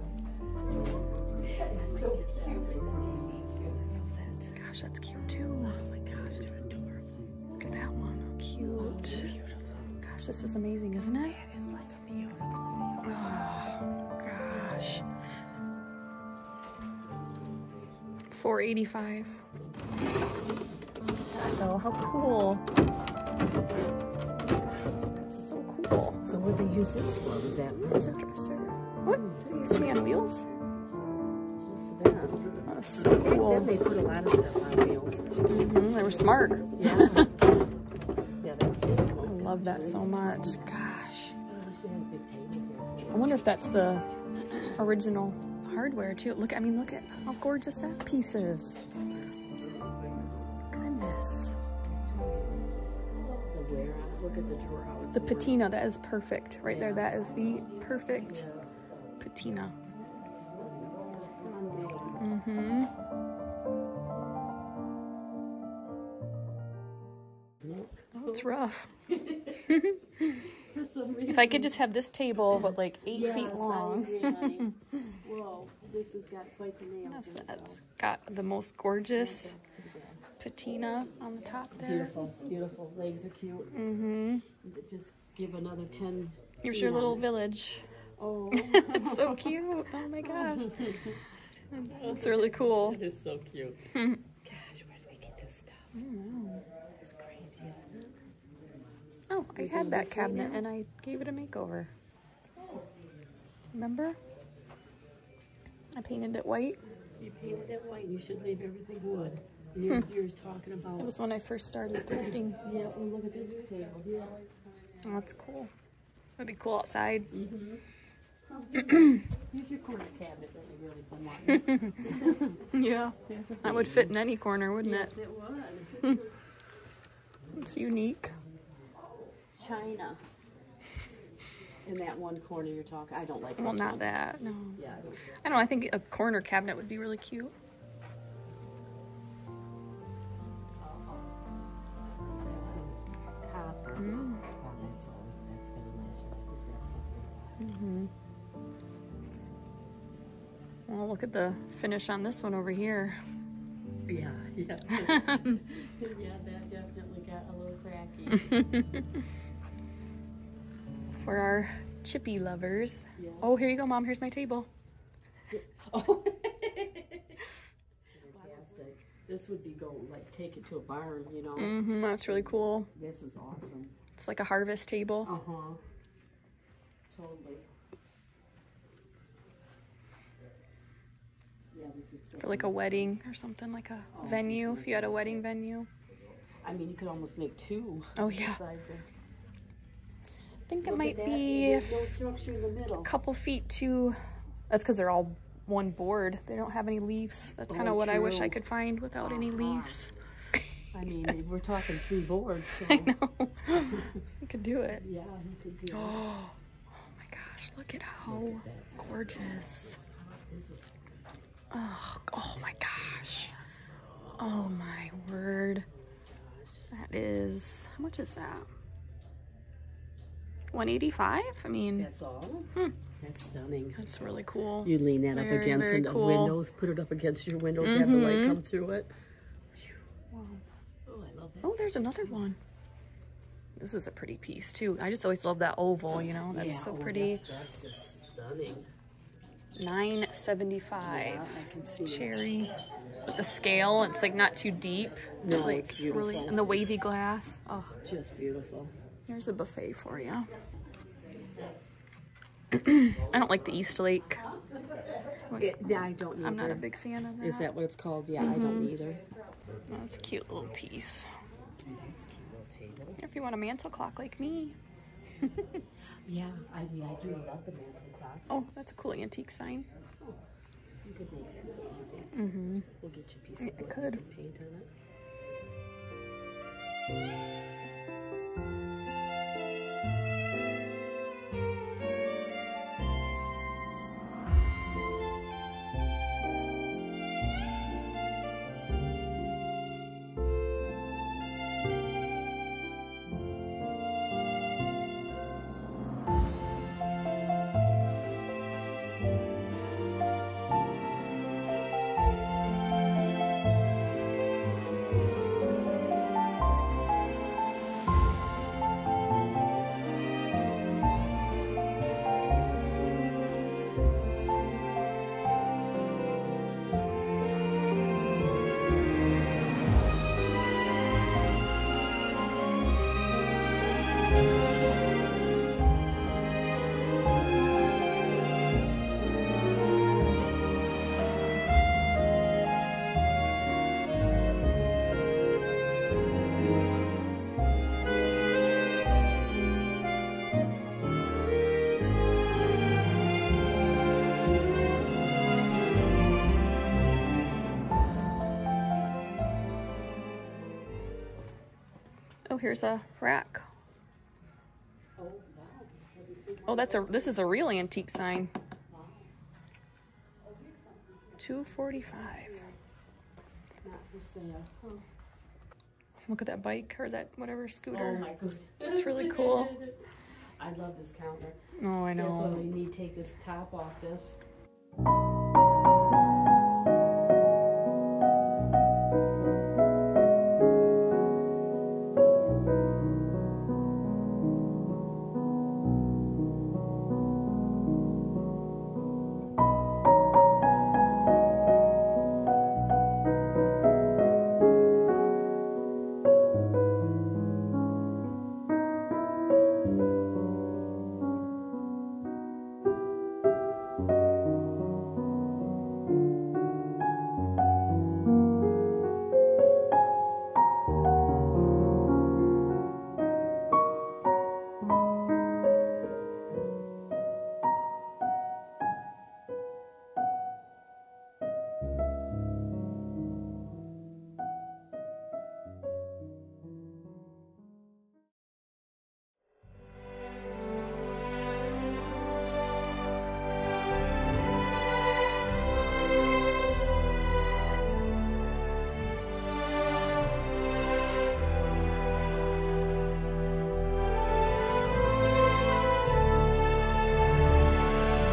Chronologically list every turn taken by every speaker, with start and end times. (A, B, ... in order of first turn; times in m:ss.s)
0:01.4-0:04.5 A
0:04.5-0:05.8 B
0:05.6-0:07.1 A
0:07.6-0:09.3 B
0:08.8-0:09.8 A
0:10.0-0:11.6 B
0:11.5-0:13.3 A
0:13.0-0:15.0 B
0:14.5-0:15.1 A
0:18.3-0:19.4 B
0:21.3-0:22.6 B
0:25.2-0:26.2 B
0:26.2-0:28.1 A
0:27.8-0:30.5 B
0:29.1-0:29.4 A
0:31.6-0:35.5 A
0:32.7-0:33.8 B
0:35.5-0:37.3 B
0:36.7-0:37.5 A
0:38.3-0:40.8 A
0:39.2-0:41.4 B
0:41.4-0:43.6 A
0:43.1-0:44.0 B
0:44.5-0:44.8 A
0:44.7-0:48.8 B
0:48.5-0:50.6 A
0:50.7-0:51.6 B
0:51.8-0:55.7 A
0:55.1-0:58.5 B
0:56.6-0:59.1 A
0:59.2-0:59.8 B
0:59.9-1:02.3 A
1:02.2-1:02.9 B
1:07.6-1:09.8 A
1:08.1-1:08.9 B
1:09.7-1:10.4 B
1:10.5-1:11.8 A
1:11.2-1:15.1 B
1:13.0-1:17.8 A
1:17.0-1:19.6 B
1:19.1-1:20.3 A
1:20.4-1:22.1 B
1:21.8-1:23.8 A
1:23.7-1:24.4 B
1:24.6-1:27.3 A
1:26.6-1:27.9 B
1:28.2-1:29.5 A
1:28.5-1:31.0 B
1:30.2-1:31.2 A
1:31.7-1:33.0 B
1:31.8-1:33.9 A
1:33.9-1:34.2 B
1:34.4-1:36.0 A
1:35.9-1:36.6 B
1:37.0-1:38.2 A
1:39.3-1:41.9 B
1:39.5-1:40.7 A
1:43.7-1:44.2 B
1:45.9-1:46.8 B
1:47.2-1:51.1 A
1:51.0-1:52.6 B
1:52.6-1:55.0 A
1:55.0-1:55.7 B
1:56.4-1:57.3 B
1:57.3-1:57.8 A
1:58.4-2:02.7 A
2:02.6-2:05.1 B
2:03.2-2:04.2 A
2:04.7-2:06.3 A
2:07.4-2:07.7 A
2:07.5-2:08.4 B
2:09.4-2:10.2 A
2:11.8-2:14.0 A
2:13.6-2:17.5 B
2:14.7-2:15.4 A
2:20.8-2:21.2 A
2:22.3-2:27.7 A
2:23.9-2:24.4 B
2:27.6-2:28.1 B
2:30.9-2:33.2 B
2:34.1-2:38.7 A
2:34.9-2:35.6 B
2:38.5-2:38.8 B
2:41.1-2:44.7 B
2:43.1-2:43.5 A
2:45.5-2:47.4 A
2:48.1-2:51.8 A
2:51.6-2:52.9 B
2:52.9-2:53.9 A
2:54.2-2:55.3 B
2:55.2-2:55.8 A
2:57.1-2:57.7 A
3:01.7-3:03.2 A
3:02.4-3:05.9 B
3:04.1-3:05.4 A
3:06.6-3:09.1 A
3:08.2-3:08.6 B
3:10.7-3:12.0 B
3:10.8-3:13.1 A
3:13.0-3:20.1 B
3:17.7-3:18.6 A
3:19.2-3:20.2 A
3:20.9-3:23.2 A
3:22.8-3:25.0 B
3:23.9-3:24.2 A
3:24.8-3:26.2 A
3:25.9-3:30.0 B
3:28.2-3:31.4 A
3:31.7-3:33.5 B
3:32.6-3:34.7 A
3:34.4-3:35.9 B
3:36.1-3:36.9 A
3:36.9-3:38.7 B
3:40.7-3:42.1 B
3:42.0-3:49.1 A
3:44.0-3:46.6 B
3:47.8-3:48.6 B
3:50.3-3:50.6 B
3:51.0-3:52.5 A
3:51.6-3:52.6 B
3:53.8-3:57.4 B
3:56.5-3:58.9 A
3:59.8-4:02.7 B
4:01.0-4:02.5 A
4:03.3-4:07.9 B
4:05.4-4:07.0 A
4:07.8-4:08.9 A
4:09.3-4:10.5 B
4:11.3-4:11.9 A
4:12.7-4:14.4 B
4:14.4-4:16.9 A
4:15.5-4:17.7 B
4:17.4-4:19.2 A
4:18.4-4:19.0 B
4:19.9-4:21.3 B
4:21.8-4:23.2 A
4:23.2-4:24.8 B
4:26.2-4:28.6 A
4:28.5-4:29.9 B
4:31.0-4:32.4 A
4:32.3-4:32.9 B
4:32.9-4:34.9 A
4:33.6-4:34.2 B
5:52.5-5:53.7 B
5:55.2-5:57.4 A
5:56.7-5:58.5 B
5:58.9-5:59.4 A
6:00.4-6:02.8 A
6:01.4-6:02.6 B
6:03.8-6:05.1 A
6:06.2-6:08.3 B
6:07.9-6:14.4 A
6:08.9-6:09.8 B
6:11.8-6:12.7 B